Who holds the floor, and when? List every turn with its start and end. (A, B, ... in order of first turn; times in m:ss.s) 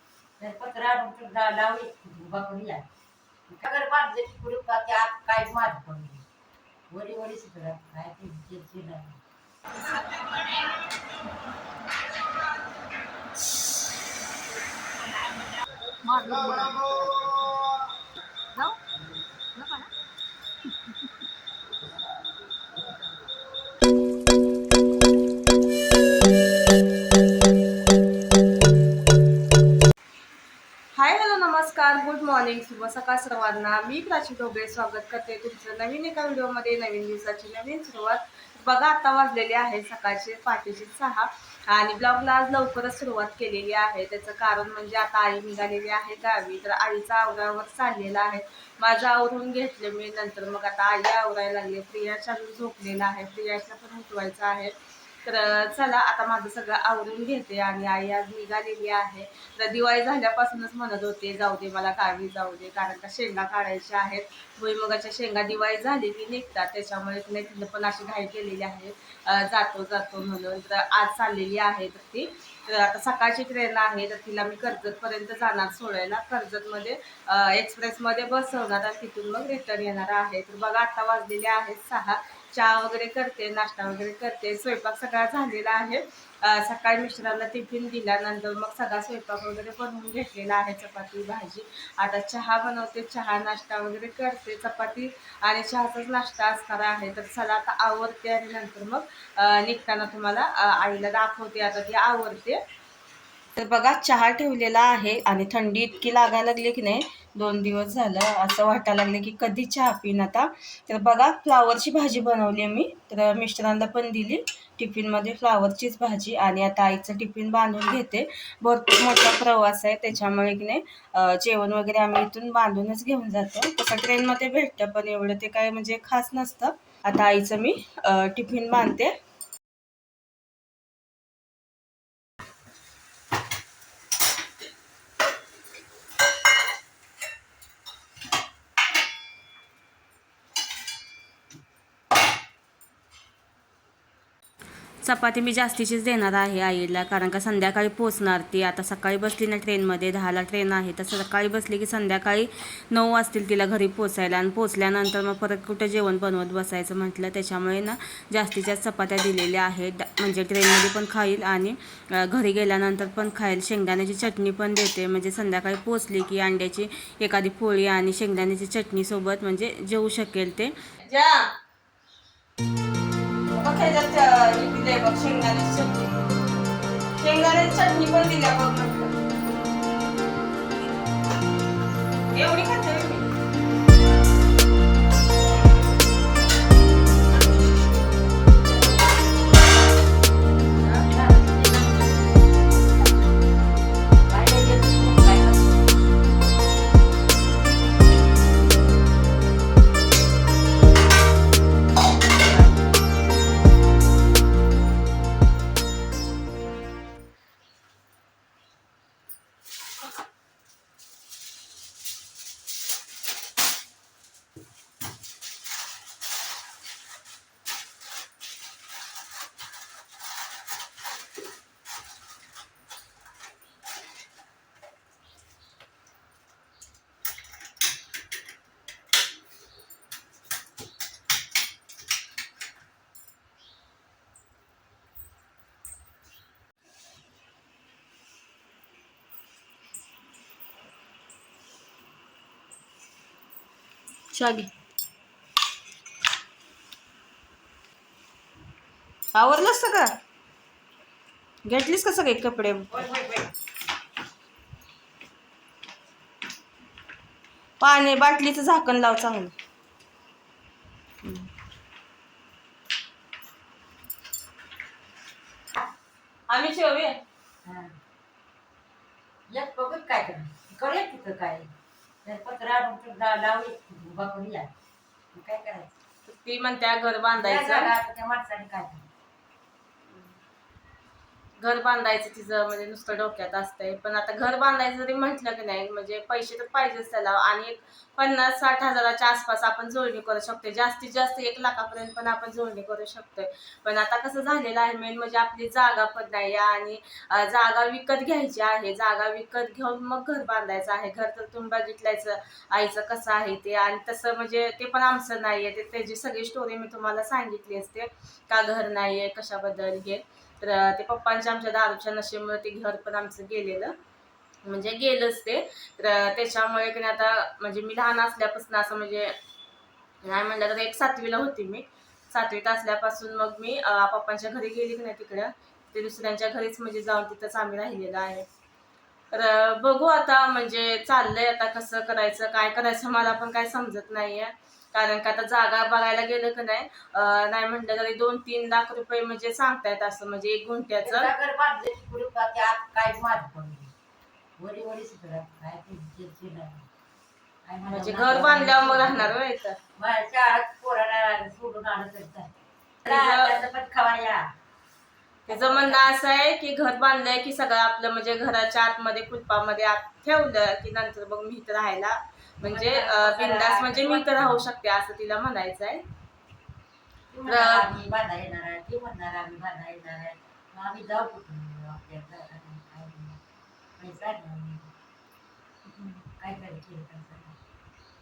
0:00.4-0:02.9 A
0:03.5-0:06.2 A
0:06.9-0:09.2 A
0:16.0-0:17.4 A
0:19.6-0:19.9 A
0:31.0-0:54.7 B
0:55.2-1:42.6 B
1:43.6-2:09.1 B
2:25.0-2:51.5 B
2:53.5-2:56.3 B
2:57.2-2:59.1 B
3:02.3-3:03.3 B
3:10.9-3:12.3 A
3:14.3-3:16.0 A
4:04.3-4:04.7 B
4:09.3-4:10.2 B
4:11.6-4:13.1 B
4:12.9-4:13.5 A
4:17.8-4:19.5 B
4:21.2-4:21.5 B
4:26.5-4:27.2 B
4:27.6-4:28.0 A
4:29.5-4:31.7 A
4:32.2-4:34.7 A
4:35.3-4:36.0 A
4:36.3-4:37.9 B
4:37.4-4:39.0 A
4:41.6-5:14.0 B
5:14.7-5:19.3 B
5:20.2-5:28.5 B
5:29.3-5:41.3 B
5:41.0-5:43.9 A
5:44.6-5:46.9 A
5:47.7-5:49.4 A
5:47.9-5:49.8 B
5:50.0-5:52.5 A
5:53.1-5:53.5 B
5:53.1-5:54.5 A
5:55.5-5:56.1 A
5:55.5-6:06.0 B
6:02.6-6:04.7 A
6:07.3-6:13.4 A
6:07.5-6:07.9 B
6:14.0-6:14.9 A
6:16.4-6:17.6 A